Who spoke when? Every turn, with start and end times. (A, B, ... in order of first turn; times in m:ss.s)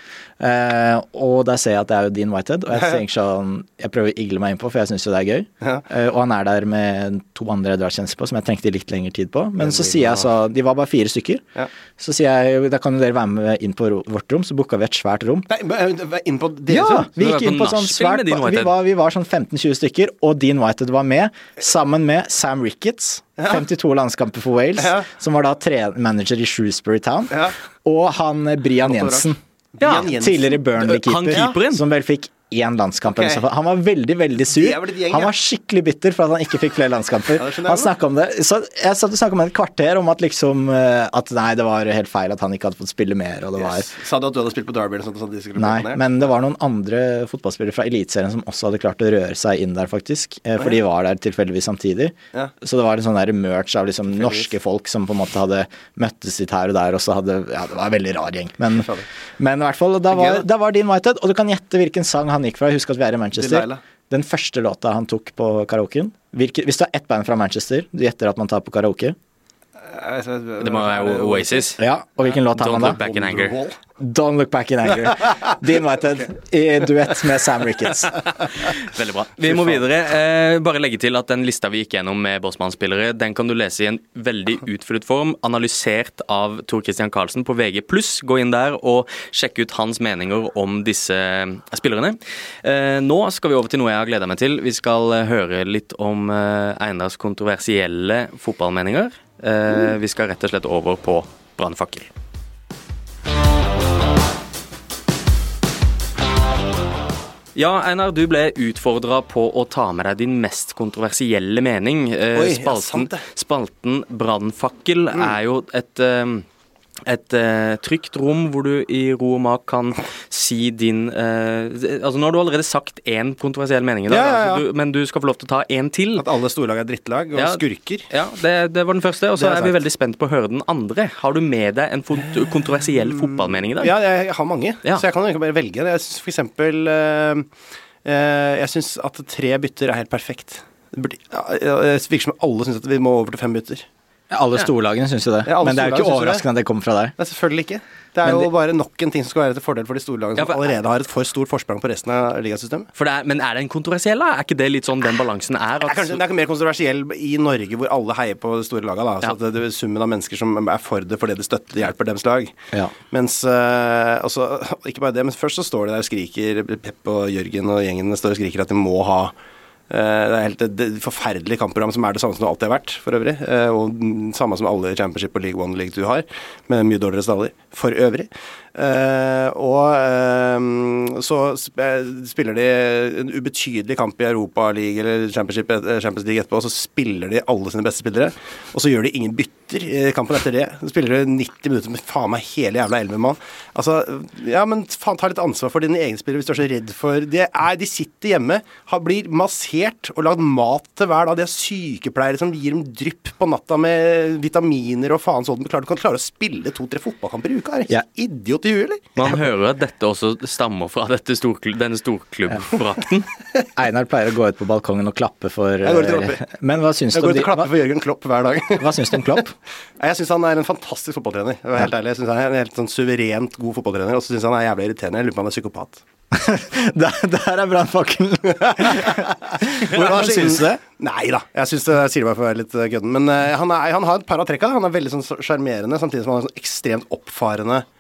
0:00.4-0:11.4 A
0:09.6-0:10.3 B
0:12.0-0:15.5 A
0:15.5-0:17.1 B
0:16.7-0:43.9 A
0:17.2-0:18.7 C
0:24.8-0:25.1 B
0:28.8-0:30.8 B
0:29.8-0:30.1 C
0:30.8-0:31.8 C
0:33.1-0:33.4 B
0:34.5-0:35.3 B
0:37.4-0:37.9 B
0:43.6-0:46.1 B
0:45.6-1:09.2 A
0:54.2-0:54.5 B
0:58.8-0:59.0 B
1:00.1-1:00.4 B
1:03.4-1:03.8 B
1:09.9-1:11.7 B
1:10.6-1:11.8 C
1:11.8-1:13.0 A
1:12.5-1:13.6 C
1:12.7-1:13.8 B
1:14.0-1:18.2 A
1:18.6-1:42.1 C
1:47.6-1:56.4 C
1:52.4-1:53.2 B
1:57.1-2:06.3 C
2:04.1-2:04.7 B
2:06.2-2:08.1 B
2:07.4-2:13.9 C
2:09.4-2:09.8 B
2:13.1-2:17.5 B
2:18.0-2:23.9 B
2:24.3-2:27.1 A
2:25.4-2:26.4 B
2:27.2-2:32.9 B
2:30.4-2:30.7 C
2:33.0-2:36.2 C
2:35.8-2:42.5 B
2:43.1-2:49.3 B
2:49.9-3:29.3 B
3:29.2-3:33.3 C
3:33.8-3:37.7 A
3:35.8-3:36.4 B
3:37.1-3:39.4 B
3:38.8-3:39.5 A
3:40.0-3:46.0 B
3:46.3-3:50.8 A
3:48.6-3:57.9 B